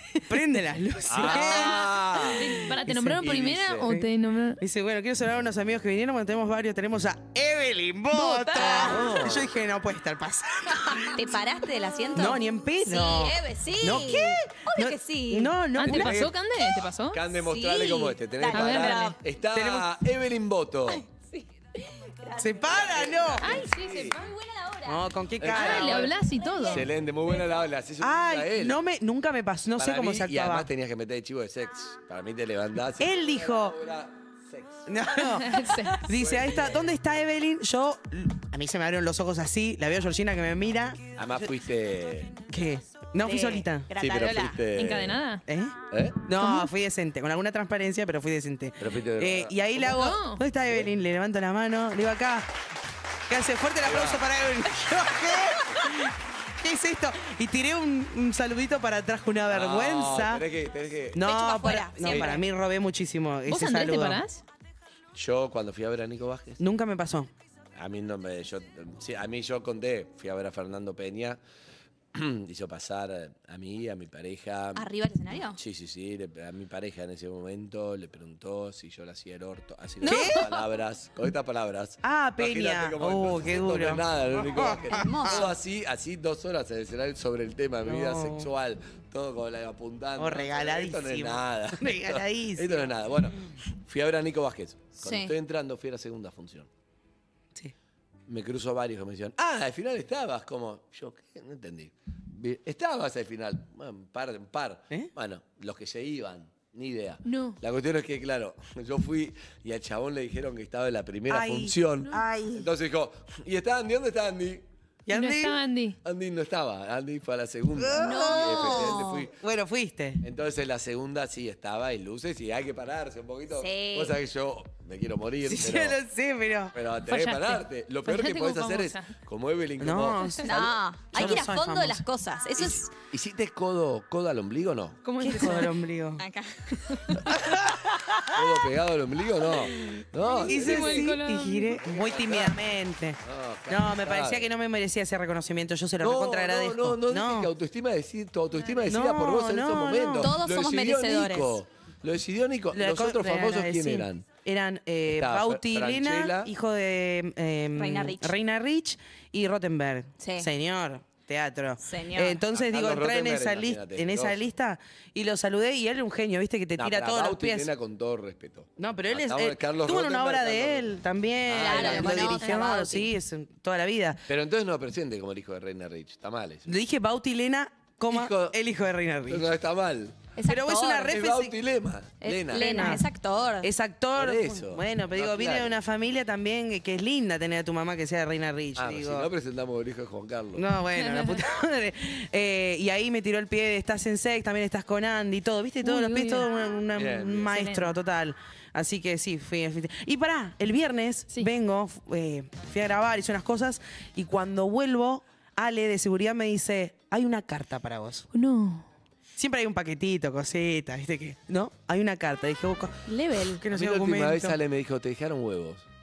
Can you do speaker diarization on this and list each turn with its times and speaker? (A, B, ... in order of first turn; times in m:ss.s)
0:00.3-0:02.3 A
0:01.1-0:02.6 B
0:01.4-0:04.6 C
0:02.8-0:03.2 A
0:03.2-0:03.9 B
0:04.6-0:11.2 A
0:08.2-0:08.8 C
0:08.5-0:09.0 D
0:08.8-0:09.5 B
0:11.1-0:15.5 D
0:12.1-0:16.2 A
0:15.8-0:17.2 C
0:15.8-0:16.4 B
0:17.1-0:21.1 B
0:17.4-0:19.2 D
0:18.5-0:19.2 C
0:19.5-0:19.9 A
0:20.9-0:23.0 D
0:22.4-0:23.6 A
0:22.7-0:24.2 B
0:23.4-0:24.2 C
0:23.9-0:25.0 D
0:24.8-0:26.1 A
0:25.4-0:26.1 B
0:25.5-0:26.9 C
0:26.2-0:27.4 D
0:26.7-0:28.8 B
0:28.0-0:30.7 A
0:29.8-0:34.9 B
0:33.0-0:33.8 A
0:34.9-0:41.0 A
0:35.4-0:36.0 C
0:36.0-0:36.9 B
0:41.2-0:42.3 B
0:42.5-0:43.9 A
0:43.2-0:44.6 D
0:44.0-0:45.2 B
0:44.7-0:45.4 C
0:45.5-0:52.5 A
0:45.9-0:46.2 B
0:46.4-0:46.7 C
0:48.8-0:49.5 B
0:49.8-0:50.4 C
0:53.3-1:00.4 A
0:53.8-0:54.2 B
0:59.5-1:01.2 B
1:01.1-1:04.2 A
1:01.2-1:02.4 D
1:02.0-1:02.3 B
1:03.5-1:04.4 C
1:05.1-1:06.6 B
1:06.6-1:07.3 A
1:07.8-1:11.4 B
1:12.1-1:14.8 B
1:14.7-1:15.6 D
1:15.6-1:36.7 B
1:20.0-1:20.7 C
1:20.0-1:20.4 A
1:22.0-1:25.5 A
1:24.9-1:25.5 D
1:27.8-1:28.5 A
1:30.2-1:32.9 A
1:35.0-1:35.3 D
1:38.3-1:54.6 B
1:47.2-1:47.6 C
1:51.3-1:52.7 A
1:55.0-1:55.6 A
1:55.1-1:56.0 C
1:56.0-1:59.3 B
1:57.8-2:00.2 A
1:58.0-1:59.3 D
2:00.2-2:06.0 B
2:03.5-2:04.2 D
2:05.4-2:06.7 A
2:06.7-2:10.6 B
2:07.0-2:09.1 C
2:09.8-2:12.0 A
2:10.4-2:12.9 D
2:12.6-2:15.0 B
2:15.0-2:15.7 C
2:15.2-2:16.2 A
2:16.2-2:17.2 D
2:17.3-2:17.8 A
2:18.3-2:21.2 B
2:20.2-2:21.8 C
2:20.5-2:27.5 A
2:21.8-2:22.6 B
2:23.2-2:24.5 B
2:26.0-2:34.3 B
2:28.5-2:28.9 C
2:28.8-2:30.3 A
2:30.2-2:31.6 D
2:32.7-2:47.7 A
2:35.1-2:36.5 B
2:37.7-2:38.4 D
2:40.2-2:40.5 D
2:41.8-2:42.4 D
2:42.5-2:44.4 B
2:46.8-2:50.9 B
2:48.8-2:54.2 A
2:51.5-2:52.5 B
2:51.6-2:53.1 D
2:54.3-2:56.6 B
2:56.7-2:59.5 A
2:58.1-2:58.6 B
2:59.3-3:00.3 B
3:00.4-3:01.2 D
3:00.4-3:01.6 A
3:01.1-3:03.0 B
3:02.2-3:03.7 D
3:02.5-3:03.1 A
3:03.6-3:09.3 A
3:04.1-3:05.8 B
3:08.8-3:10.6 B
3:10.5-3:28.3 A
3:11.0-3:11.4 C
3:15.8-3:16.5 C
3:16.9-3:17.5 B
3:17.5-3:18.0 C
3:28.3-3:28.9 C
3:29.4-3:33.0 A
3:33.1-3:33.6 D
3:33.6-3:34.6 A
3:33.7-3:35.8 B